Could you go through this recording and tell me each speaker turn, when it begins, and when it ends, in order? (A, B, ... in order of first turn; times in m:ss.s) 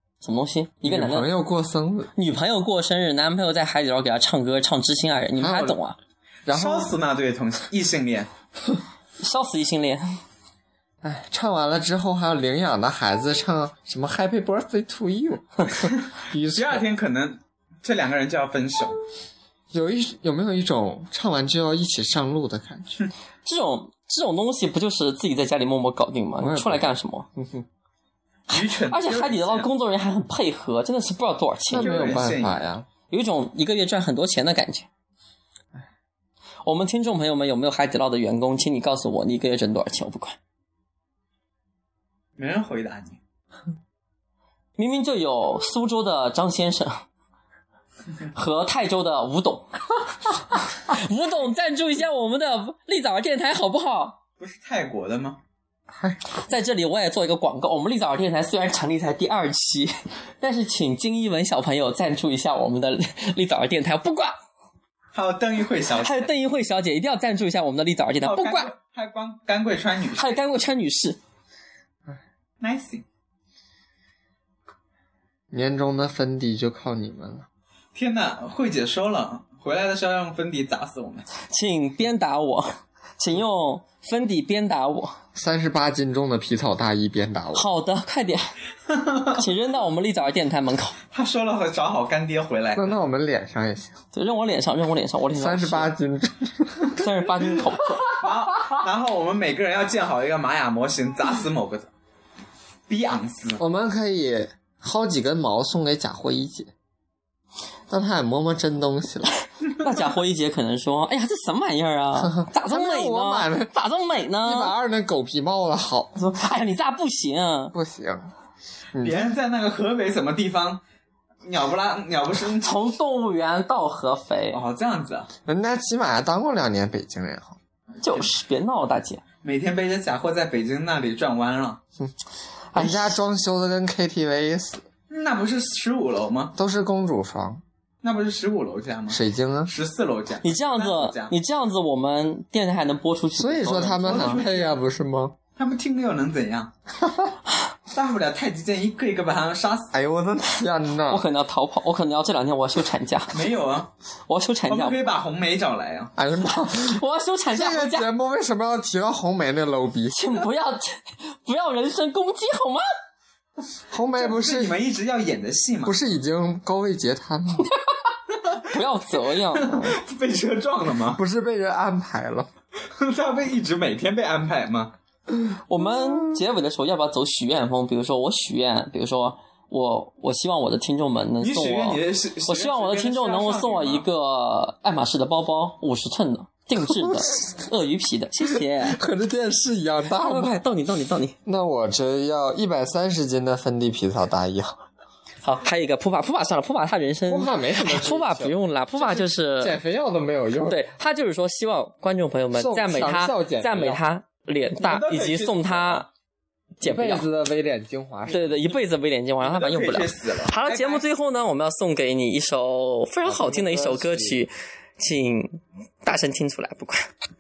0:00.2-0:01.3 A
0:00.8-0:02.1 B
0:02.2-0:06.0 A
0:05.4-0:05.8 B
0:06.5-0:07.0 B
0:06.5-0:08.3 C
0:09.2-0:10.0 A
0:11.0-0:16.8 B
0:16.5-0:19.0 C
0:19.7-0:23.0 B
0:23.4-0:27.3 A
0:26.4-0:27.6 B
0:28.5-0:29.7 C
0:28.5-0:32.2 A
0:31.7-0:32.6 C
0:31.7-0:32.9 B
0:33.1-0:34.9 A
0:36.6-0:40.4 A
0:42.4-0:43.2 C
0:44.8-0:47.0 A
0:48.3-0:49.7 A
0:50.2-0:54.2 A
0:54.4-0:55.4 C
0:56.0-0:56.4 B
0:56.4-1:04.3 A
1:05.1-1:06.3 C
1:06.0-1:08.7 A
1:08.2-1:10.4 C
1:10.2-1:11.2 A
1:12.6-1:13.0 C
1:15.5-1:17.5 B
1:18.0-1:21.3 C
1:21.5-1:22.7 A
1:23.2-1:25.2 A
1:25.4-1:27.7 B
1:27.5-1:28.5 A
1:28.9-1:29.4 C
1:29.3-1:31.0 A
1:31.1-1:32.9 C
1:32.8-1:34.0 B
1:34.1-1:35.9 A
1:35.4-1:37.0 B
1:36.9-1:38.2 A
1:38.2-1:41.9 C
1:42.9-1:43.6 C
1:43.6-1:46.7 B
1:47.9-1:49.3 B
1:49.7-1:54.8 A
1:52.2-1:53.7 B
1:54.4-1:56.1 B
1:56.2-1:57.7 A
1:57.7-1:58.3 B
1:58.9-1:59.3 B
1:59.0-2:00.8 C
2:01.4-2:02.8 C
2:02.6-2:04.6 A
2:04.5-2:05.3 C
2:05.5-2:07.6 B
2:08.0-2:08.3 C
2:08.0-2:09.2 A
2:09.4-2:11.8 C
2:12.7-2:13.2 A
2:12.8-2:14.8 B
2:15.1-2:16.5 C
2:16.6-2:17.6 B
2:18.0-2:21.3 C
2:19.1-2:19.7 B
2:20.4-2:24.4 A
2:23.4-2:25.4 B
2:24.0-2:24.8 C
2:25.6-2:26.7 C
2:27.0-2:27.3 B
2:27.9-2:29.9 C
2:29.9-2:31.2 B
2:31.1-2:33.4 A
2:33.3-2:33.9 C
2:34.3-2:35.0 A
2:34.7-2:36.1 C
2:36.2-2:37.0 B
2:36.5-2:38.1 A
2:37.5-2:40.4 B
2:40.1-2:42.8 A
2:43.9-2:44.8 B
2:44.1-2:46.0 C
2:45.8-2:47.7 B
2:48.5-2:48.8 C
2:48.6-2:50.0 A
2:49.5-2:51.2 C
2:51.1-2:52.5 B
2:52.9-2:55.0 C
2:55.7-3:09.0 A
3:01.4-3:04.1 C
3:07.0-3:07.2 B
3:08.4-3:10.6 B
3:10.1-3:11.4 A
3:11.5-3:14.8 B
3:15.4-3:19.8 A
3:17.3-3:20.8 B
3:20.6-3:26.1 A
3:22.5-3:24.0 B
3:24.8-3:26.1 C
3:26.8-3:27.3 A
3:26.8-3:28.7 B
3:28.3-3:37.1 A
3:29.4-3:31.0 C
3:33.2-3:34.4 B